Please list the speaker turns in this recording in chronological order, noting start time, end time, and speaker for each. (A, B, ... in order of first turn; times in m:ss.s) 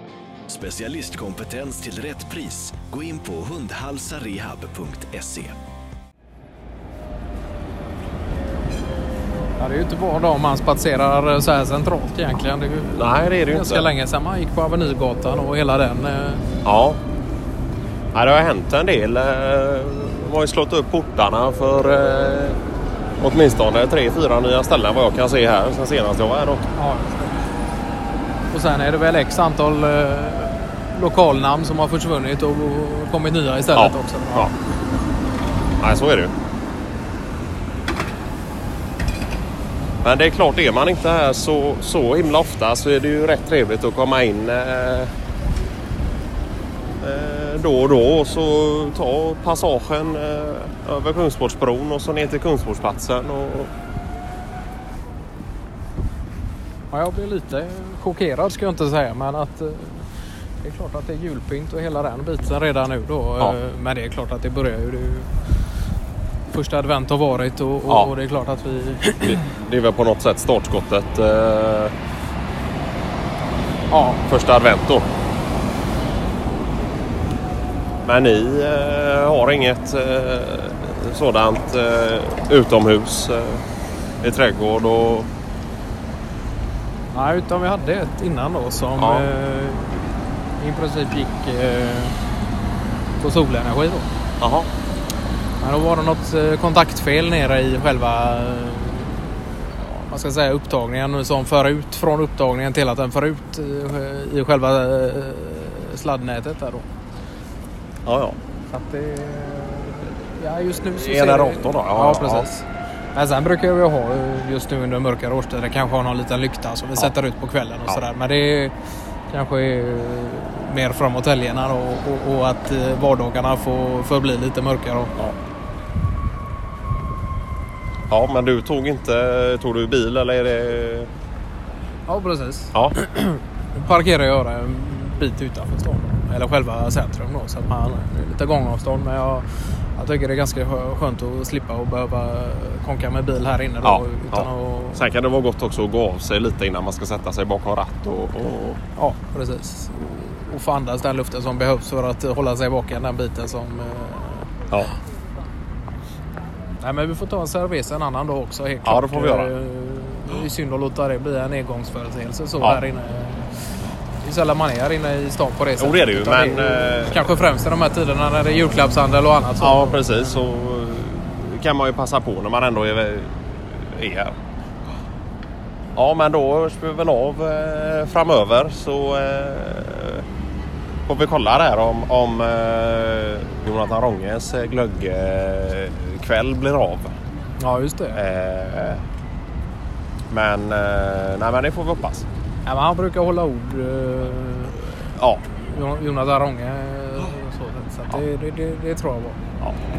0:00.5-0:05.6 A
0:09.6-0:16.4 B
0:13.0-0:13.9 C
0:16.6-0:17.0 C
0:18.1-0:22.6 C
0:23.2-0:26.7 C
0:26.8-0:27.4 B
0:28.5-0:34.6 B
0:33.8-0:34.5 C
0:35.8-0:36.3 C
0:40.0-0:45.1 C
0:47.0-0:53.7 C
0:56.9-1:00.1 B
1:00.6-1:05.3 B
1:06.5-1:09.4 B
1:07.9-1:08.1 C
1:09.2-1:11.9 C
1:13.9-1:14.2 B
1:14.3-1:15.1 C
1:18.0-1:23.6 C
1:24.2-1:25.3 C
1:27.1-1:32.2 B
1:29.0-1:29.3 C
1:33.2-1:34.1 B
1:34.4-1:34.7 C
1:35.6-1:46.9 B
1:48.1-1:48.4 C
1:48.7-1:58.7 B
1:50.9-1:52.5 C
1:59.3-2:05.2 B
2:08.1-2:11.1 C
2:12.1-2:25.1 B
2:23.8-2:28.8 C
2:29.0-2:34.5 B
2:36.8-2:43.5 B
2:38.8-2:39.5 C
2:44.2-2:50.4 B
2:45.8-2:47.3 C
2:49.6-2:54.4 C
2:56.0-3:00.2 C
3:01.1-3:07.1 C
3:07.6-3:08.2 B
3:08.2-3:09.0 C
3:10.3-3:12.3 C
3:12.6-3:19.4 B